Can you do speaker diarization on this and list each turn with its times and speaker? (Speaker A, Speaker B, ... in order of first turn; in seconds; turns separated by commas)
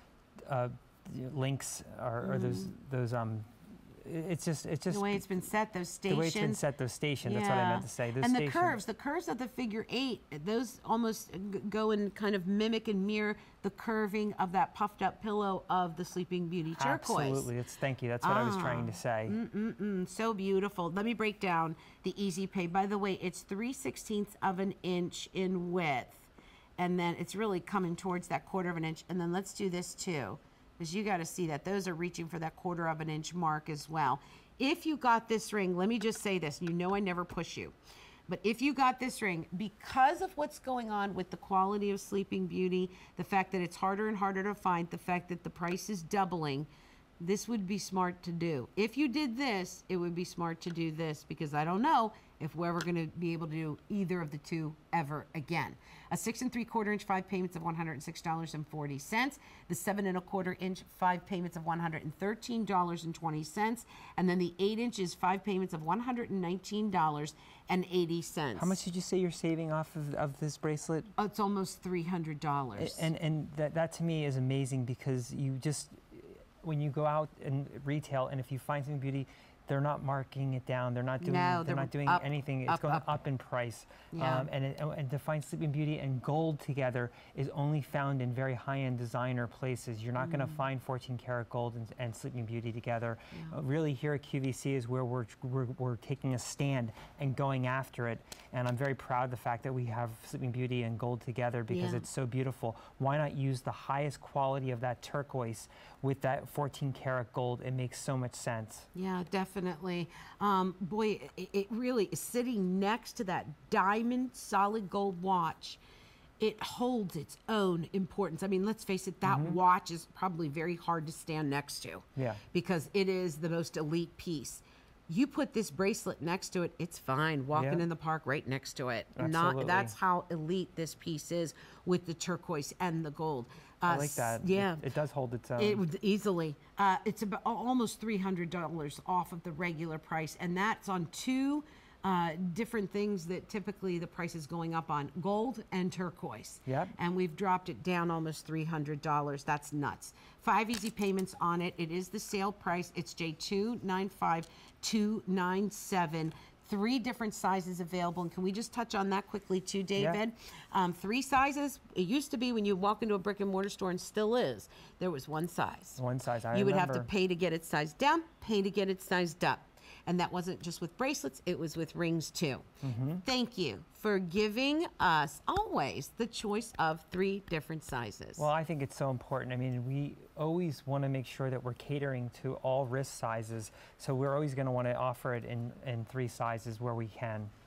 Speaker A: 0.5-5.4, Speaker B: 2.2-2.7, Speaker B: 4.9-6.6, Speaker A: 6.1-8.8, Speaker B: 7.2-17.5, Speaker A: 16.8-19.4, Speaker B: 18.2-37.7, Speaker B: 38.3-68.8, Speaker A: 68.6-71.1, Speaker B: 71.2-73.1, Speaker A: 72.8-108.9, Speaker B: 81.2-83.1, Speaker B: 84.1-84.5, Speaker B: 90.2-90.6, Speaker B: 93.3-93.6, Speaker B: 101.7-102.0, Speaker B: 108.9-115.8, Speaker B: 116.4-134.8, Speaker A: 119.2-119.6, Speaker A: 122.2-122.4, Speaker A: 127.5-127.8, Speaker A: 129.2-129.9, Speaker A: 133.8-135.8, Speaker B: 135.6-172.7, Speaker A: 146.7-146.9, Speaker A: 166.0-167.1, Speaker A: 172.8-173.2, Speaker B: 173.2-178.5, Speaker A: 178.4-187.5